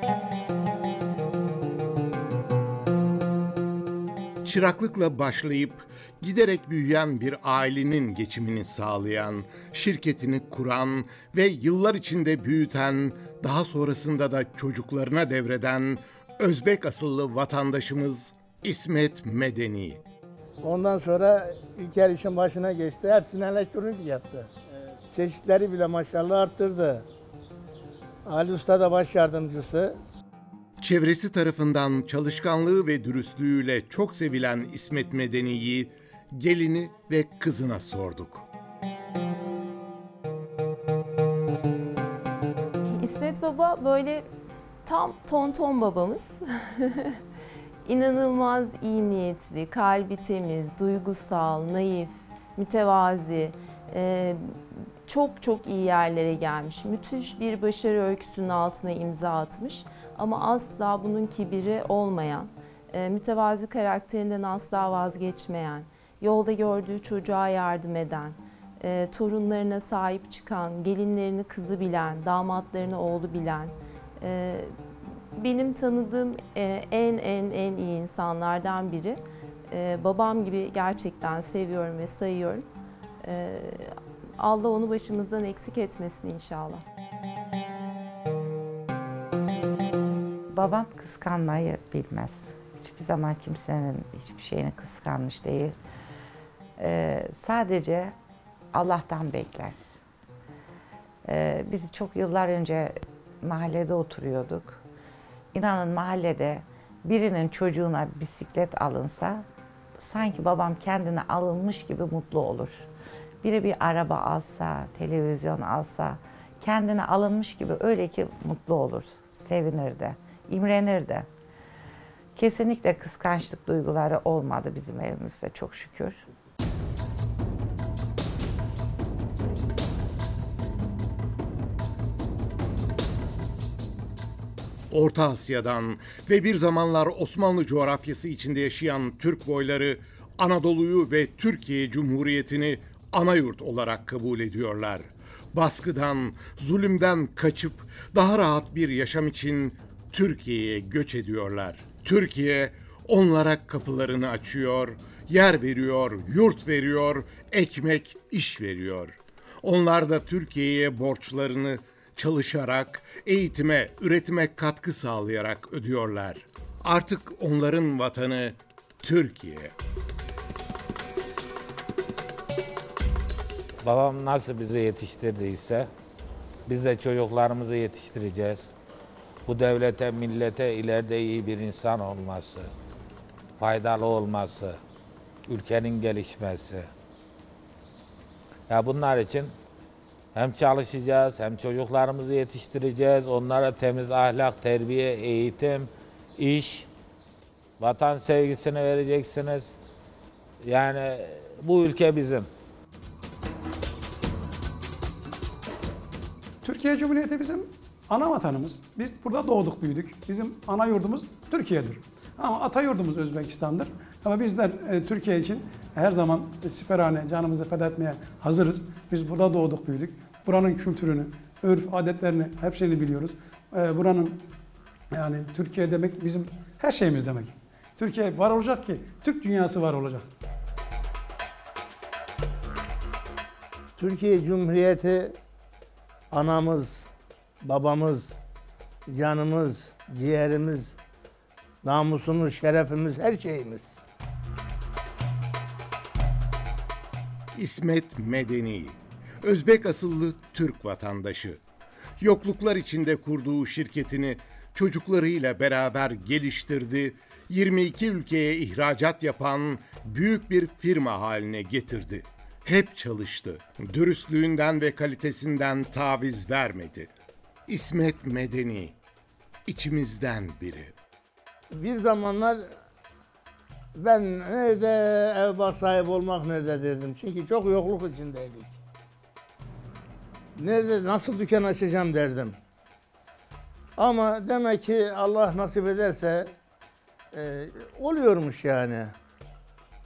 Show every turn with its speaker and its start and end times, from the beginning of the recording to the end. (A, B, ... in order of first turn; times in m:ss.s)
0:04.4-0:20.0 A
0:20.6-0:24.5 B
0:25.1-0:27.1 B
0:28.3-0:30.0 B
0:30.8-0:38.4 A
0:43.0-0:44.3 C
0:44.8-0:47.2 C
0:47.8-1:14.8 C
1:15.4-1:22.6 C
1:23.2-1:26.8 C
1:30.5-1:35.8 D
1:36.8-1:38.2 D
1:38.7-1:40.0 D
1:41.2-1:44.8 D
1:45.5-1:49.4 D
1:50.0-1:52.9 D
1:53.4-2:01.3 D
2:02.4-2:06.2 D
2:14.9-2:49.7 A
2:53.8-2:55.9 E
2:56.7-2:58.7 E
2:59.5-3:02.7 E
3:03.6-3:04.8 E
3:05.5-3:06.9 E
3:08.7-3:09.5 E
3:10.3-3:16.9 E
3:17.8-3:19.7 E
3:20.6-3:22.5 E
3:26.6-3:44.4 F
3:45.2-3:50.2 F
3:54.0-3:55.4 B
3:56.3-3:57.0 B
3:57.6-3:58.4 B
3:59.1-4:00.9 B
4:01.8-4:03.9 B
4:07.5-4:11.6 A
4:12.2-4:27.1 A
4:27.7-4:29.0 A
4:29.7-4:30.9 A
4:31.7-4:32.6 B
4:34.0-4:38.8 B
4:40.6-4:42.6 B
4:44.0-4:46.5 B
4:47.3-4:49.1 B